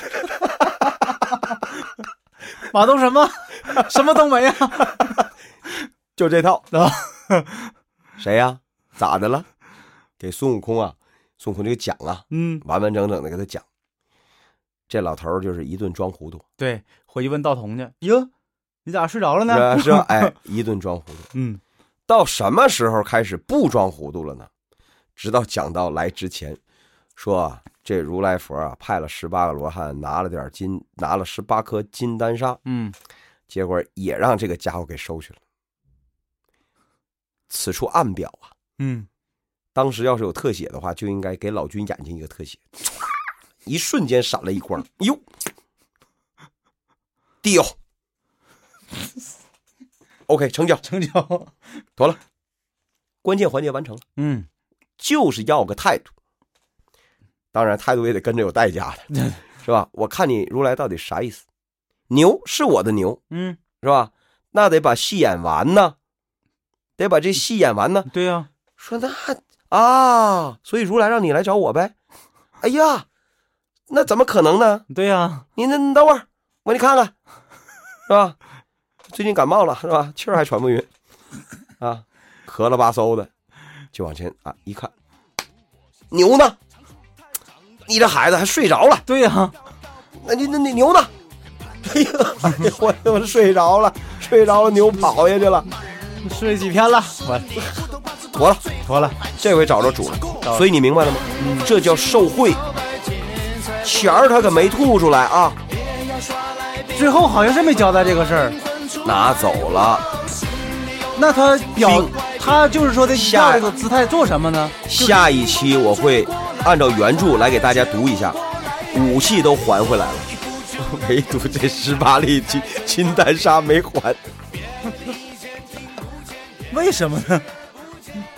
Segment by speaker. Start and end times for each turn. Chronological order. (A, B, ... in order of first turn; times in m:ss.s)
0:02.6-0:05.2 A
0:06.2-0:06.7 B
0:06.7-0:07.7 A
0:08.2-0:09.5 B
0:10.2-0:13.7 B
0:12.3-0:12.6 A
0:14.9-0:16.4 B
0:16.6-0:18.3 A
0:18.8-0:20.3 A
0:19.5-0:21.3 B
0:21.3-0:21.6 A
0:22.1-0:24.5 B
0:25.2-0:26.6 B
0:27.2-0:32.6 B
0:32.6-0:33.0 A
0:33.5-0:35.4 B
0:37.5-0:38.5 B
0:38.8-0:39.1 A
0:39.8-0:42.6 B
0:43.7-0:45.2 B
0:47.4-0:47.8 B
0:50.3-0:50.8 B
0:50.8-0:51.6 A
0:53.2-0:54.0 B
0:54.2-0:54.5 A
0:55.0-0:56.1 B
0:57.5-0:59.1 B
0:59.1-0:59.4 A
0:59.6-1:01.4 B
1:02.1-1:03.2 B
1:03.3-1:03.6 A
1:03.8-1:06.0 B
1:07.0-1:08.1 B
1:08.1-1:08.5 A
1:08.8-1:11.9 B
1:12.6-1:13.1 B
1:13.9-1:14.8 B
1:14.9-1:15.5 A
1:15.6-1:17.1 B
1:18.1-1:18.4 B
1:19.1-1:20.9 B
1:21.8-1:23.3 B
1:23.9-1:24.9 B
1:26.1-1:26.6 B
1:27.9-1:29.0 B
1:29.1-1:29.6 A
1:30.2-1:31.1 B
1:31.8-1:35.7 B
1:36.1-1:37.8 A
1:38.3-1:38.7 B
1:38.8-1:39.2 A
1:39.4-1:42.6 B
1:41.4-1:41.7 A
1:43.8-1:45.6 B
1:46.9-1:48.6 A
1:49.0-1:50.1 B
1:51.1-1:55.2 A
1:51.8-1:52.2 B
1:53.1-1:53.7 B
1:54.9-2:04.2 B
2:06.7-2:07.6 A